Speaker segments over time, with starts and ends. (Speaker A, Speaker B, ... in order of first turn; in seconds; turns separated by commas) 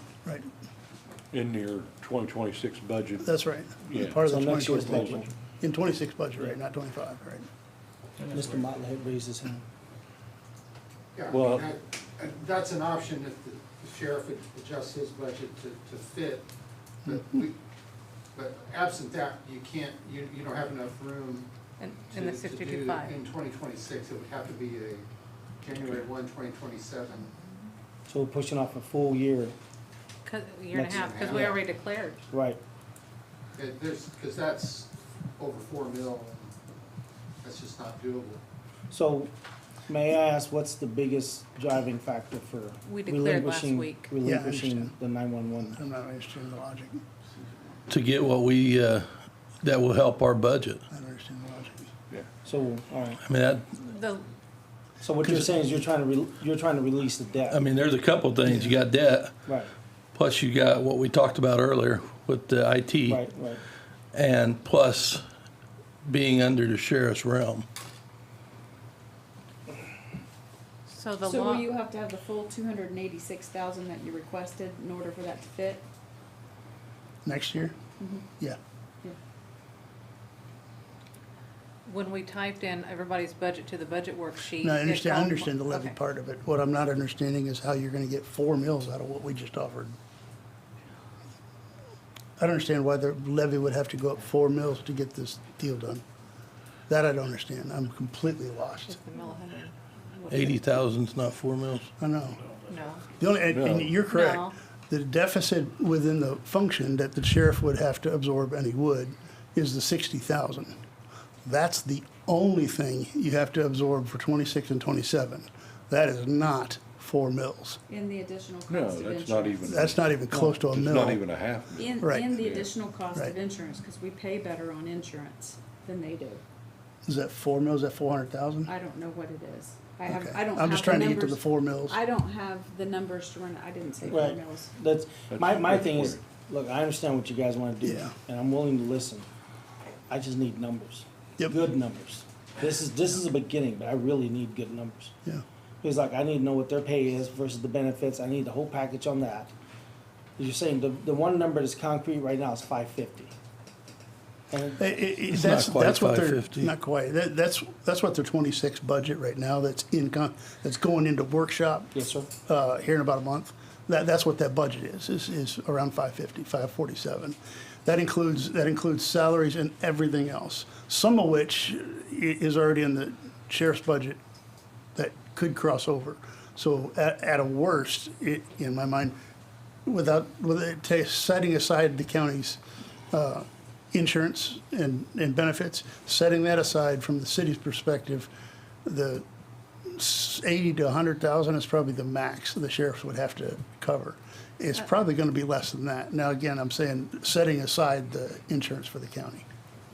Speaker A: 1.3-3.3, Speaker B: 3.2-7.5, Speaker A: 3.9-5.2, Speaker C: 4.2-5.3, Speaker C: 8.2-9.6, Speaker D: 11.2-16.5, Speaker A: 11.3-11.7, Speaker D: 17.1-17.6, Speaker B: 17.1-17.4, Speaker D: 18.4-25.1, Speaker E: 21.8-23.2, Speaker D: 25.6-27.3, Speaker C: 28.1-29.6, Speaker E: 30.2-32.2, Speaker C: 30.7-31.6, Speaker D: 30.8-31.6, Speaker C: 32.3-32.6, Speaker D: 33.5-36.5, Speaker D: 37.4-38.4, Speaker C: 38.9-39.3, Speaker C: 39.9-45.8, Speaker E: 42.9-44.1, Speaker B: 44.2-45.0, Speaker B: 45.7-47.0, Speaker F: 47.9-49.1, Speaker F: 49.6-50.8, Speaker B: 50.9-51.9, Speaker C: 52.4-53.2, Speaker F: 53.2-53.8, Speaker E: 53.8-54.3, Speaker C: 55.0-57.6, Speaker B: 55.2-55.5, Speaker F: 57.5-59.4, Speaker B: 58.5-58.8, Speaker C: 59.5-59.7, Speaker F: 60.1-63.2, Speaker C: 63.1-63.6, Speaker F: 64.1-65.2, Speaker F: 66.1-67.7, Speaker E: 70.9-71.7, Speaker G: 71.2-75.8, Speaker B: 77.2-77.8, Speaker G: 78.0-78.2, Speaker E: 81.8-86.0, Speaker B: 84.6-90.0, Speaker B: 92.4-96.0, Speaker B: 96.9-99.0, Speaker E: 98.9-100.6, Speaker F: 100.3-101.9, Speaker B: 102.0-102.4, Speaker E: 102.7-103.0, Speaker B: 103.2-110.8, Speaker A: 103.5-104.0, Speaker E: 104.0-104.5, Speaker B: 111.5-117.8, Speaker G: 117.9-119.8, Speaker A: 118.7-122.7, Speaker B: 119.7-121.2, Speaker G: 121.8-126.4, Speaker B: 122.0-122.3, Speaker B: 127.1-128.7, Speaker G: 128.7-134.7, Speaker B: 130.1-132.0, Speaker C: 134.1-139.3, Speaker A: 135.3-136.3, Speaker B: 137.8-138.2, Speaker C: 140.1-145.2, Speaker C: 145.8-149.5, Speaker C: 150.4-153.3, Speaker C: 154.5-155.0, Speaker B: 154.8-174.2, Speaker F: 155.3-156.7, Speaker C: 161.9-162.3, Speaker B: 174.9-179.2, Speaker B: 179.9-188.3, Speaker B: 188.8-189.2, Speaker B: 189.9-199.5